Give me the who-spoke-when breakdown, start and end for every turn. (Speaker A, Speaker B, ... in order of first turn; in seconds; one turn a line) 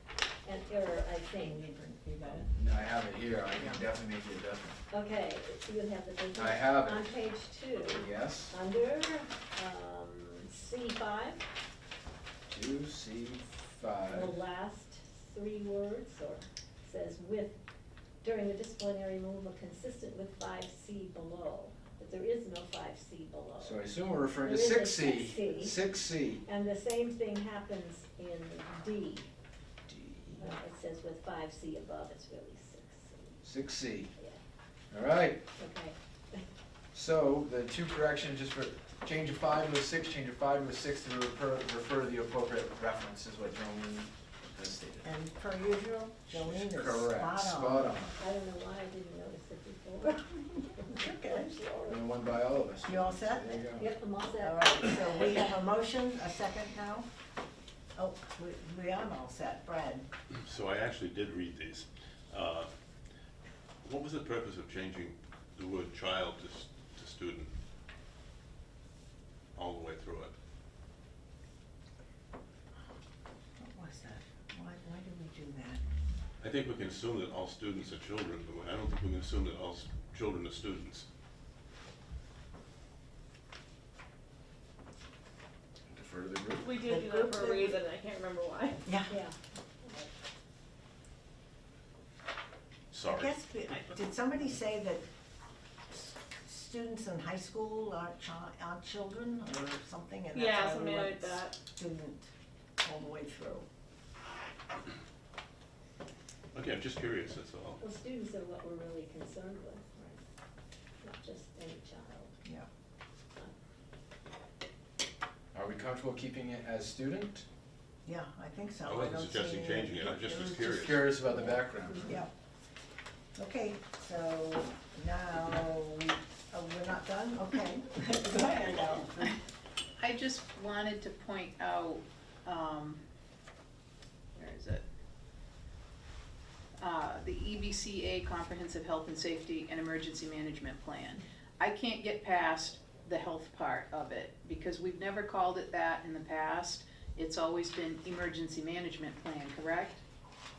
Speaker A: 0.4-1.6
Speaker B: 1.4-2.5
Speaker C: 2.5-4.8
Speaker B: 3.5-3.8
Speaker A: 4.9-11.4
Speaker C: 6.3-7.2
Speaker C: 7.8-8.5
Speaker C: 12.5-14.3
Speaker A: 14.1-17.6
Speaker A: 18.2-23.8
Speaker C: 23.6-26.4
Speaker A: 24.4-25.9
Speaker A: 26.4-29.3
Speaker C: 29.9-30.5
Speaker A: 30.4-33.4
Speaker C: 33.4-34.1
Speaker C: 34.9-35.4
Speaker A: 35.6-36.4
Speaker C: 36.9-45.1
Speaker B: 45.0-48.0
Speaker C: 46.4-48.2
Speaker A: 48.1-52.0
Speaker B: 50.9-51.5
Speaker C: 51.9-53.9
Speaker B: 52.8-53.5
Speaker A: 53.5-55.2
Speaker B: 54.4-57.1
Speaker B: 58.0-60.0
Speaker D: 60.4-62.7
Speaker D: 63.8-67.5
Speaker D: 69.5-70.3
Speaker B: 73.6-75.8
Speaker D: 76.4-81.0
Speaker C: 85.9-86.7
Speaker E: 86.6-88.9
Speaker B: 86.8-87.8
Speaker B: 88.8-89.1
Speaker A: 89.1-90.1
Speaker D: 92.9-93.9
Speaker B: 93.1-95.1
Speaker B: 95.9-102.2
Speaker E: 100.3-101.6
Speaker B: 102.8-103.7
Speaker D: 106.5-107.8
Speaker A: 107.8-110.2
Speaker A: 111.0-112.3
Speaker C: 115.5-117.5
Speaker B: 118.0-120.8
Speaker D: 118.8-121.1
Speaker C: 120.7-122.2
Speaker A: 121.5-122.2
Speaker B: 122.0-122.3
Speaker B: 123.3-129.4
Speaker F: 130.0-133.0
Speaker F: 134.3-134.8
Speaker F: 136.8-150.0